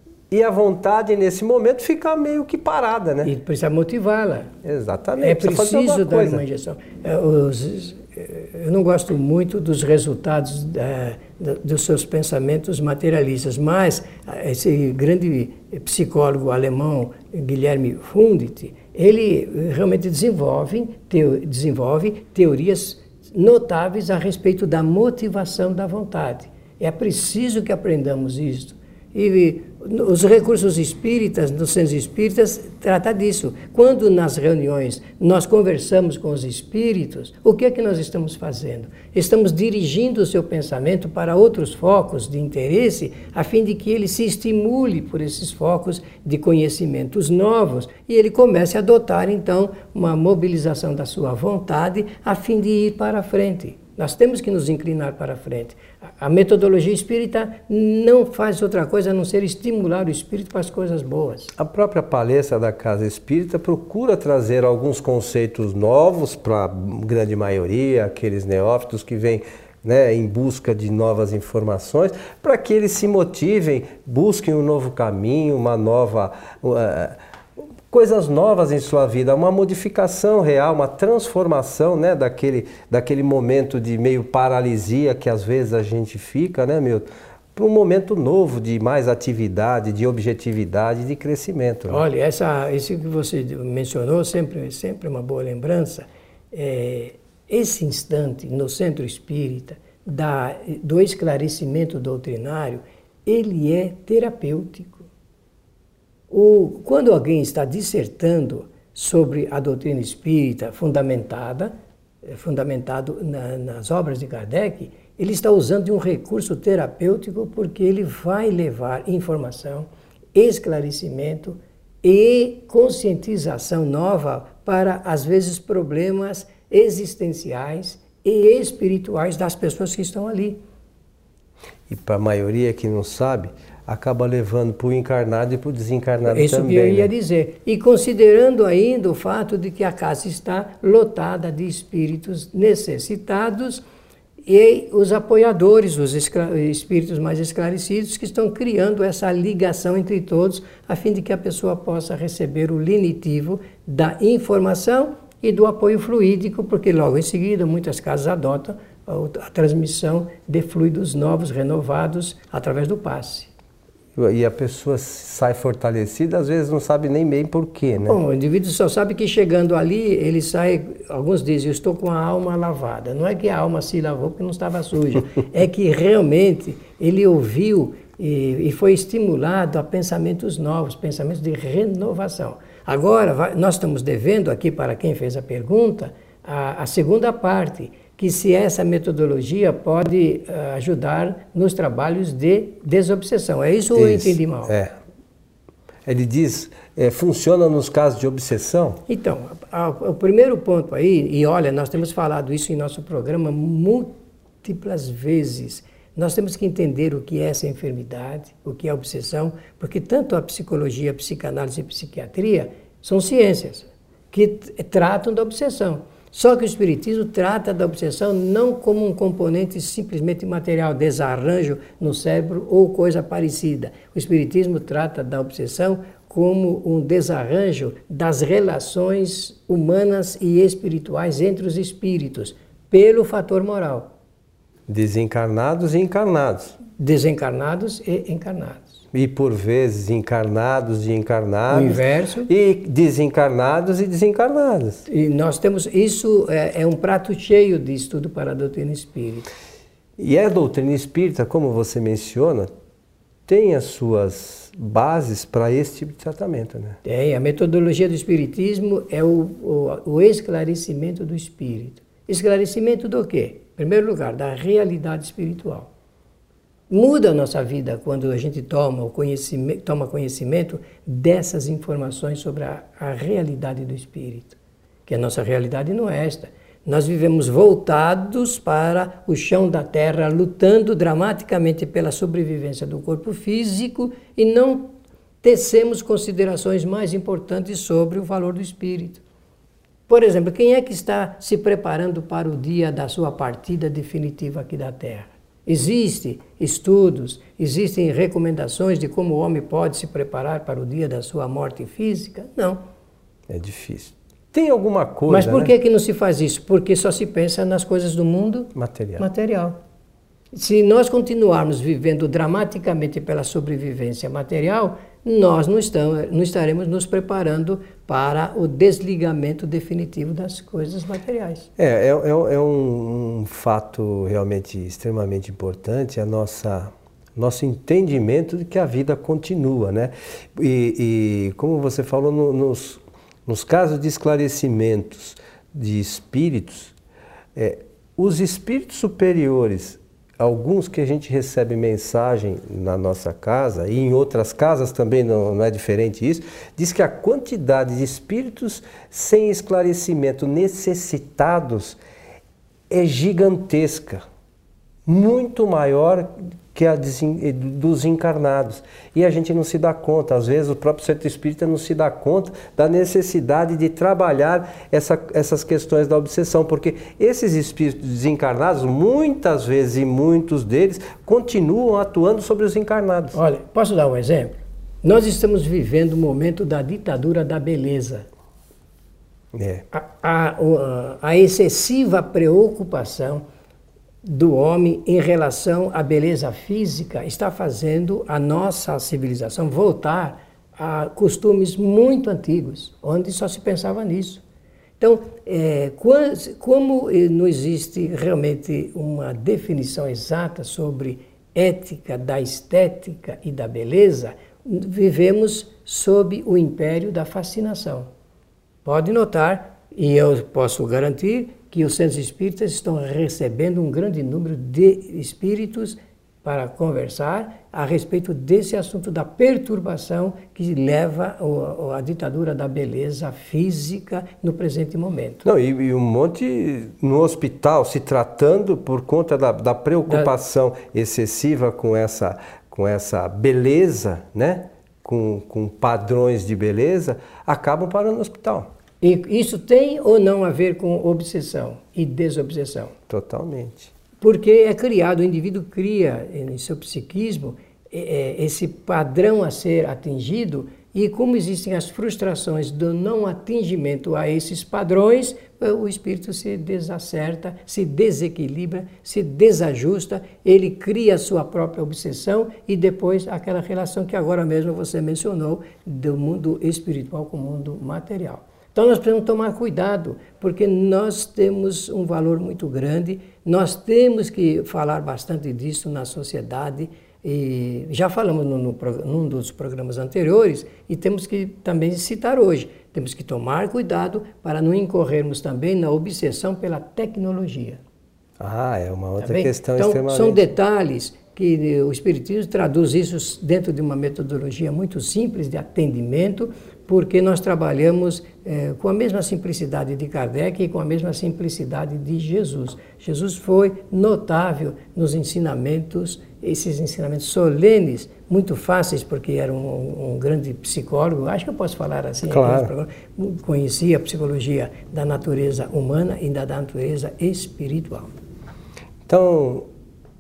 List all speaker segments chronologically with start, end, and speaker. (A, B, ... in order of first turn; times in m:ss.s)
0:00.3-0:03.3 A
0:03.2-0:04.5 B
0:04.6-0:06.4 A
0:05.2-1:01.5 B
1:01.6-1:17.2 A
1:17.9-1:32.0 A
1:31.9-1:45.1 B
1:46.3-1:51.7 B
1:52.2-2:10.6 B
2:11.9-2:17.1 A
2:16.3-2:23.8 B
2:24.5-2:43.5 B
2:44.2-2:48.2 A
2:47.9-3:14.8 B
3:14.0-3:14.9 A
3:16.1-3:19.0 A
3:19.1-3:54.1 B
3:54.9-3:56.8 A
3:57.0-3:59.0 B
3:59.1-4:05.0 A
4:01.7-4:02.5 B
4:05.1-4:09.5 B
4:10.2-4:12.7 A
4:13.5-4:17.0 A
4:17.0-4:25.9 B
4:26.9-4:49.2 B
4:50.1-5:02.8 B
5:03.5-5:05.7 A
5:05.3-5:09.8 B
5:08.8-5:09.2 A
5:10.5-5:21.7 B
5:21.8-5:36.9 A
5:37.6-5:52.0 A
5:52.9-5:54.2 A
5:55.1-6:13.4 A
6:13.3-6:18.3 B
6:19.5-6:19.8 A
6:19.9-6:23.4 B
6:24.2-6:34.4 B
6:35.0-6:48.1 B
6:48.8-7:05.4 B
7:05.4-7:18.7 A
7:10.1-7:10.3 B
7:19.0-7:22.9 B
7:23.1-7:23.9 A
7:24.2-8:07.8 B
8:08.4-8:10.5 A
8:09.2-8:38.1 B
8:32.3-8:32.7 A
8:39.1-8:39.7 A